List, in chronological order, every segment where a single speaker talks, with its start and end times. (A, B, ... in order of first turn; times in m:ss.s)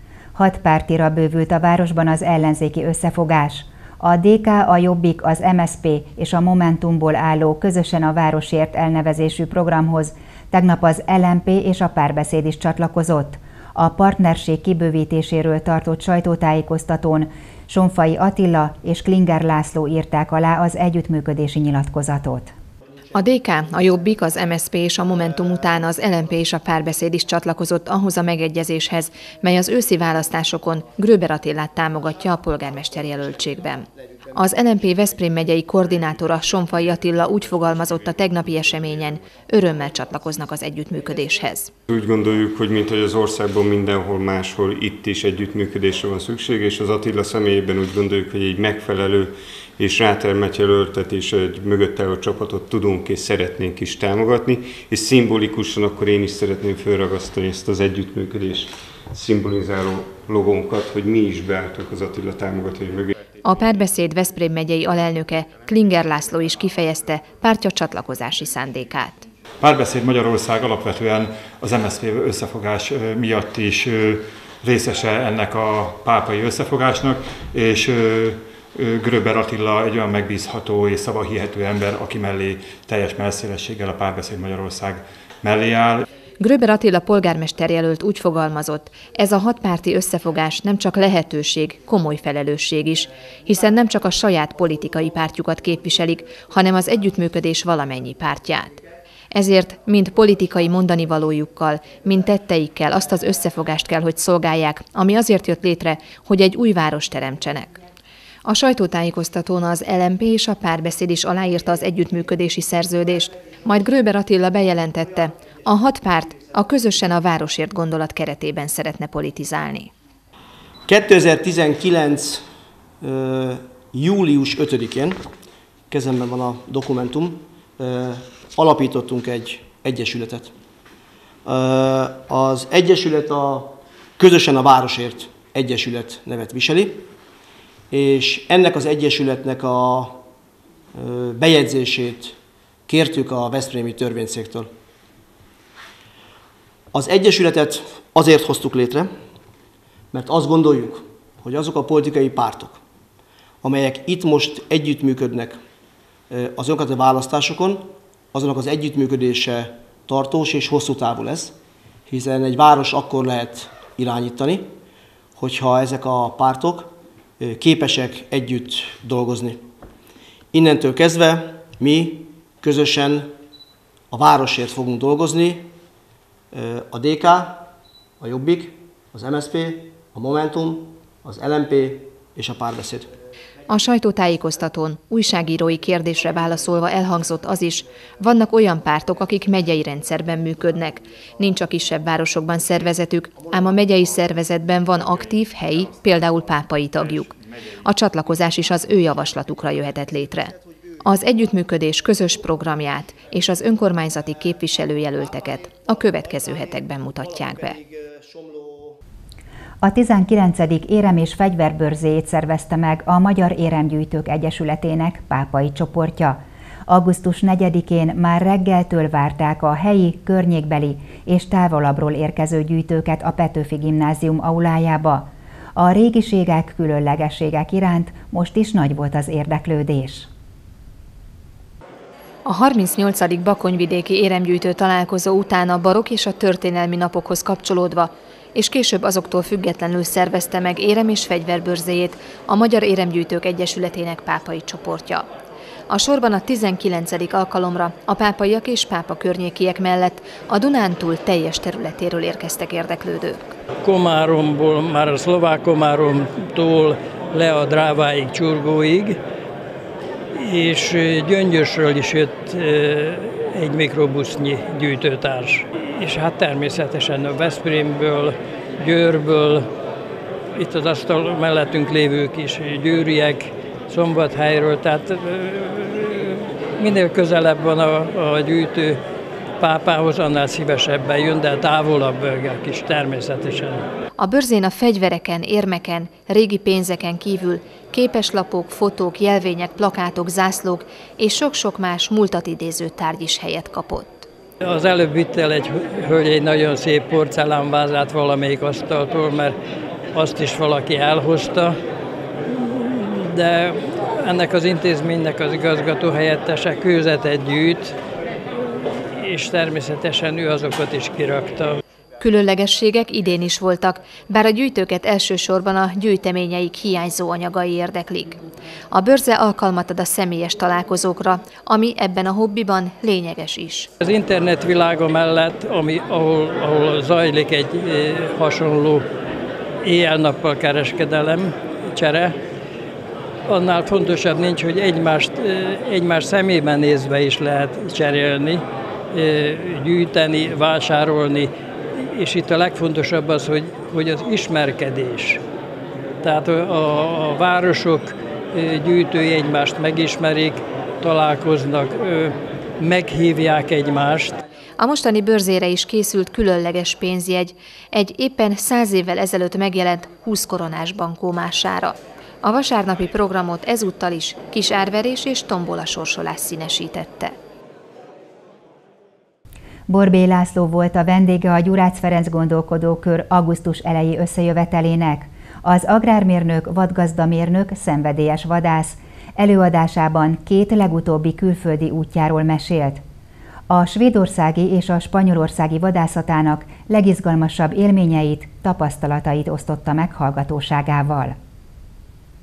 0:00.4-0:22.5 A
0:23.1-0:41.7 B
0:41.9-1:03.2 C
1:03.4-1:09.3 B
1:09.6-1:26.1 D
1:26.4-1:47.8 B
1:48.4-1:59.9 B
2:00.9-2:02.5 E
2:03.0-2:05.3 E
2:05.9-2:10.6 E
2:11.5-2:17.1 E
2:17.9-2:20.3 E
2:21.0-2:22.4 E
2:22.9-2:24.7 E
2:26.9-2:29.1 E
2:30.1-2:32.8 E
2:33.6-2:35.6 E
2:36.3-2:41.6 E
2:42.1-2:44.7 E
2:45.4-2:49.6 E
2:50.5-2:53.3 E
2:54.1-2:55.8 E
2:56.5-3:03.1 E
3:03.7-3:27.8 B
3:29.8-3:50.3 A
3:52.4-4:05.3 B
4:05.9-4:13.6 B
4:13.8-4:19.2 F
4:20.3-4:29.7 F
4:30.5-4:39.0 F
4:39.6-4:43.8 F
4:44.2-4:54.3 B
4:54.6-4:59.6 F
5:00.1-5:01.8 F
5:02.5-5:08.0 F
5:09.1-5:11.8 F
5:12.2-5:23.9 B
5:24.0-5:29.1 F
5:29.8-5:32.4 F
5:33.5-5:45.4 F
5:46.2-5:54.4 F
5:54.8-6:07.4 B
6:09.9-6:23.0 A
6:23.7-6:31.4 A